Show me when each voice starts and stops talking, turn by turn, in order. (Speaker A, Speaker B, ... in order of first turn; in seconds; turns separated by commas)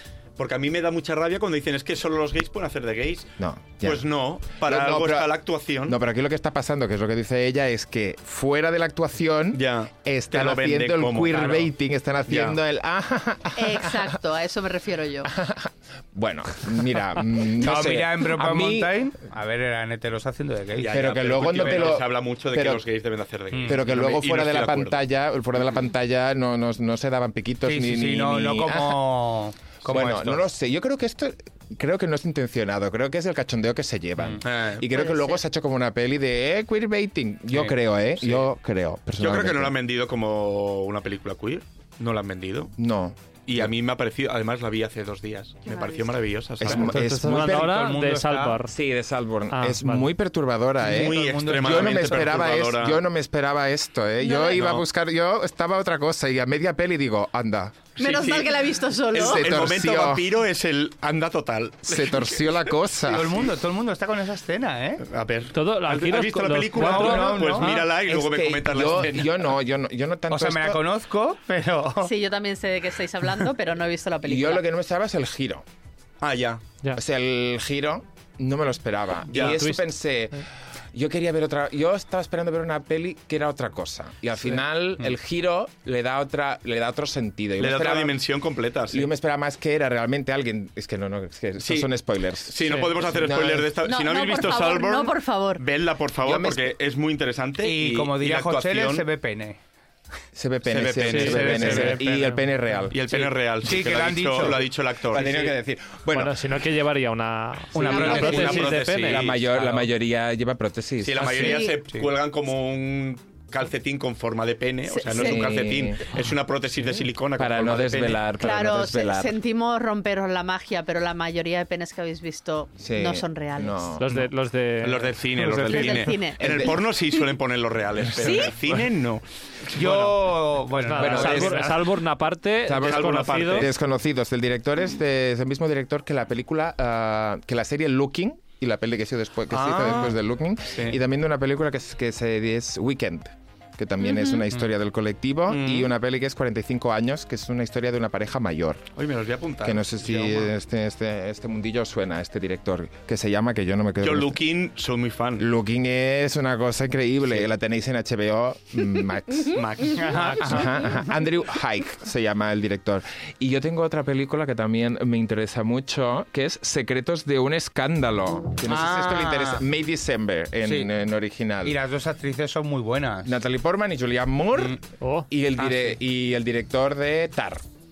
Speaker A: 0.4-6.0, Speaker B: 3.4-4.0, Speaker B: 4.6-5.3, Speaker B: 5.8-14.1, Speaker A: 9.5-11.7, Speaker A: 12.3-12.6, Speaker C: 13.6-15.3, Speaker B: 15.2-18.9, Speaker D: 17.5-22.0, Speaker A: 20.8-25.0, Speaker B: 20.9-22.8, Speaker D: 23.5-23.8, Speaker B: 23.6-29.0, Speaker D: 27.6-30.4, Speaker B: 29.8-39.8, Speaker A: 34.4-34.9, Speaker C: 34.9-35.4, Speaker A: 37.5-38.5, Speaker A: 39.2-42.7, Speaker B: 42.8-43.7, Speaker A: 43.5-46.9, Speaker C: 45.7-46.1, Speaker B: 46.6-47.8, Speaker E: 46.6-48.7, Speaker D: 47.2-48.6, Speaker B: 48.7-57.9, Speaker E: 49.5-50.1, Speaker D: 50.8-52.6, Speaker A: 50.8-53.0, Speaker C: 54.2-54.7, Speaker A: 54.5-54.8, Speaker C: 58.0-59.4, Speaker A: 58.0-62.6, Speaker B: 59.1-60.3, Speaker B: 61.8-63.3, Speaker D: 63.1-65.0, Speaker A: 65.0-69.5, Speaker E: 65.5-67.7, Speaker D: 66.7-67.9, Speaker B: 67.7-70.8, Speaker D: 70.3-72.1, Speaker C: 72.0-74.6, Speaker B: 74.2-75.6, Speaker A: 76.2-76.6, Speaker B: 76.9-80.4, Speaker A: 79.3-79.6, Speaker E: 79.3-79.9, Speaker B: 80.9-88.2, Speaker A: 87.6-89.1, Speaker B: 88.9-93.7, Speaker A: 91.6-91.9, Speaker A: 92.4-99.0, Speaker E: 92.6-92.9, Speaker C: 93.8-95.6, Speaker B: 96.2-96.7, Speaker D: 97.6-99.6, Speaker B: 100.3-103.0, Speaker A: 100.6-101.9, Speaker E: 101.1-102.4, Speaker D: 101.1-102.4, Speaker A: 102.9-105.5, Speaker D: 103.0-104.6, Speaker B: 105.1-106.4, Speaker E: 106.1-109.8, Speaker D: 107.7-108.8, Speaker A: 107.8-109.4, Speaker B: 107.9-111.5, Speaker A: 111.0-118.2, Speaker D: 111.2-112.1, Speaker C: 111.3-111.8, Speaker C: 114.9-115.6, Speaker B: 115.1-116.0, Speaker B: 117.4-119.3, Speaker C: 118.4-124.0, Speaker B: 122.8-124.2, Speaker E: 124.0-126.2, Speaker A: 124.8-130.4, Speaker C: 125.6-127.2, Speaker B: 126.4-126.8, Speaker C: 128.2-128.5, Speaker B: 128.2-128.8, Speaker D: 129.7-131.8, Speaker E: 130.7-133.7, Speaker B: 130.9-131.7, Speaker A: 131.1-131.4, Speaker B: 132.7-148.8, Speaker A: 132.7-133.7, Speaker A: 139.5-140.2, Speaker A: 140.7-141.0, Speaker C: 144.1-144.4, Speaker A: 145.5-145.9, Speaker A: 148.9-150.5, Speaker B: 149.6-154.4, Speaker A: 154.0-155.4, Speaker B: 155.4-171.8, Speaker A: 159.5-160.7, Speaker D: 159.9-160.7, Speaker D: 168.7-169.6, Speaker D: 171.6-173.3, Speaker B: 173.2-177.6, Speaker E: 175.0-175.3